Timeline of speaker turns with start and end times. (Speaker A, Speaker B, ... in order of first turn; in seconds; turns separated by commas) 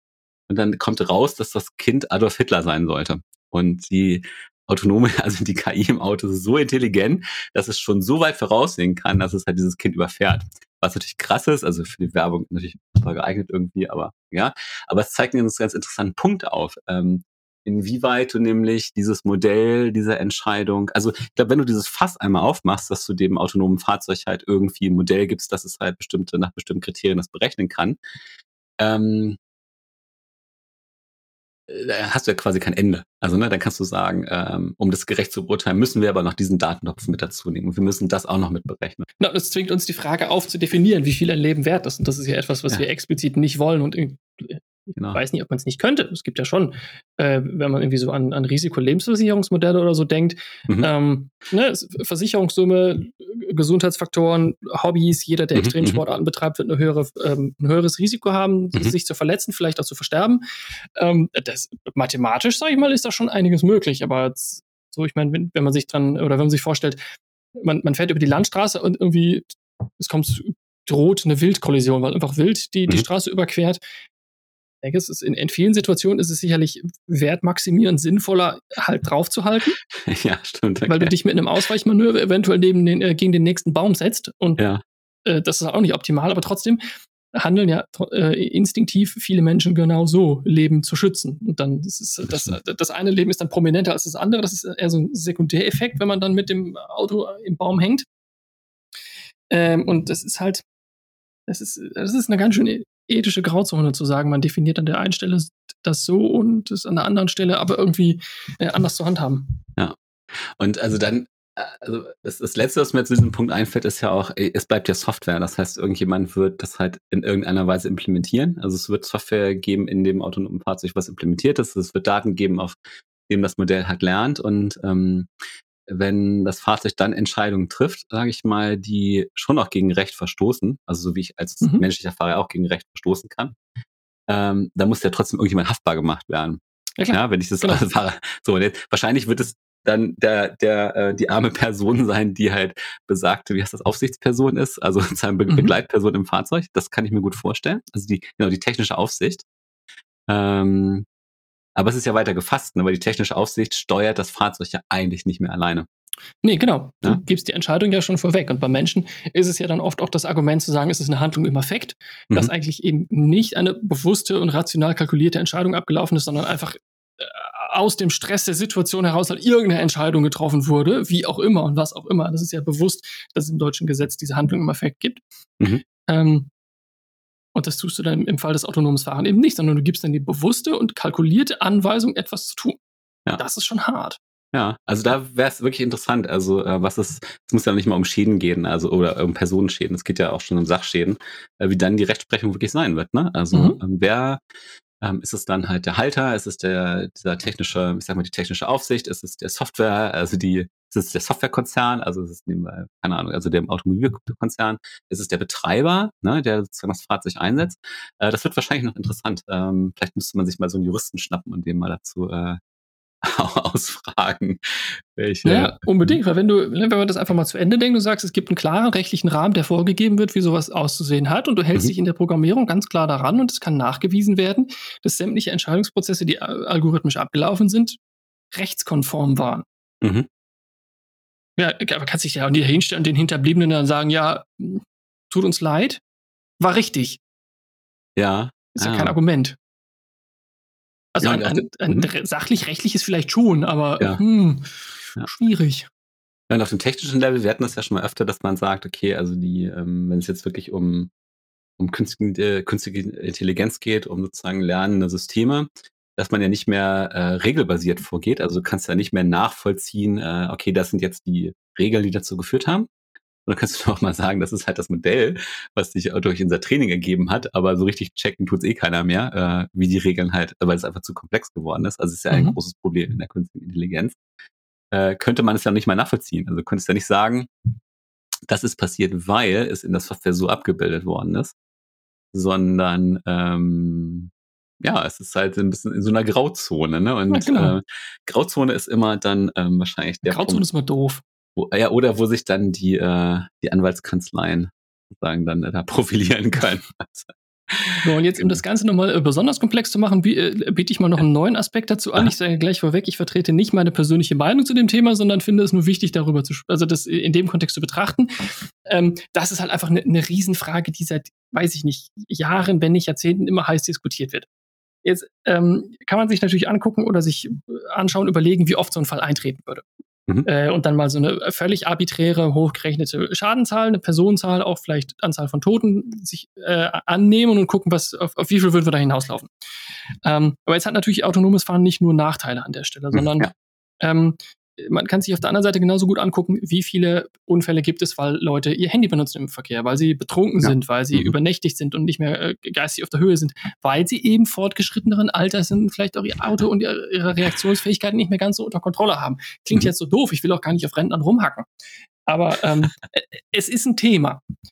Speaker A: 0.5-28.0, Speaker A: 28.8-29.4, Speaker A: 31.7-39.0, Speaker B: 39.2-60.4, Speaker A: 44.9-45.2, Speaker A: 55.5-56.0, Speaker B: 61.0-67.0, Speaker B: 67.6-73.8, Speaker B: 74.8-79.8, Speaker A: 80.0-81.1, Speaker B: 80.8-84.6, Speaker B: 85.2-98.1, Speaker B: 99.5-100.6, Speaker B: 101.5-109.5, Speaker A: 109.8-122.8, Speaker A: 123.3-125.3, Speaker A: 125.9-133.6, Speaker A: 134.3-136.6, Speaker B: 137.0-137.8, Speaker A: 137.1-149.4, Speaker B: 145.5-145.7, Speaker A: 150.3-151.1, Speaker A: 151.8-155.9, Speaker B: 156.4-175.2, Speaker B: 176.1-176.5, Speaker B: 177.5-182.8, Speaker B: 183.4-184.2, Speaker A: 184.5-194.4, Speaker B: 193.5-193.8, Speaker A: 195.0-212.6, Speaker A: 213.2-216.2, Speaker B: 215.4-228.0, Speaker B: 228.5-229.7, Speaker A: 230.0-230.3, Speaker B: 231.6-236.0, Speaker B: 236.6-237.2, Speaker A: 238.2-239.1, Speaker B: 238.7-239.6, Speaker B: 241.1-245.9, Speaker A: 241.2-242.1, Speaker A: 246.5-251.1, Speaker A: 251.8-262.9, Speaker A: 263.4-274.2, Speaker B: 272.3-272.6, Speaker A: 274.9-277.5, Speaker A: 278.5-281.5, Speaker A: 282.3-284.3, Speaker A: 284.8-290.6, Speaker B: 287.3-287.7, Speaker B: 290.3-291.2, Speaker A: 291.6-298.6, Speaker B: 297.9-314.5, Speaker B: 315.0-319.8, Speaker B: 320.4-329.5, Speaker B: 330.2-351.7, Speaker A: 333.1-333.5, Speaker A: 340.6-341.3, Speaker B: 352.3-354.4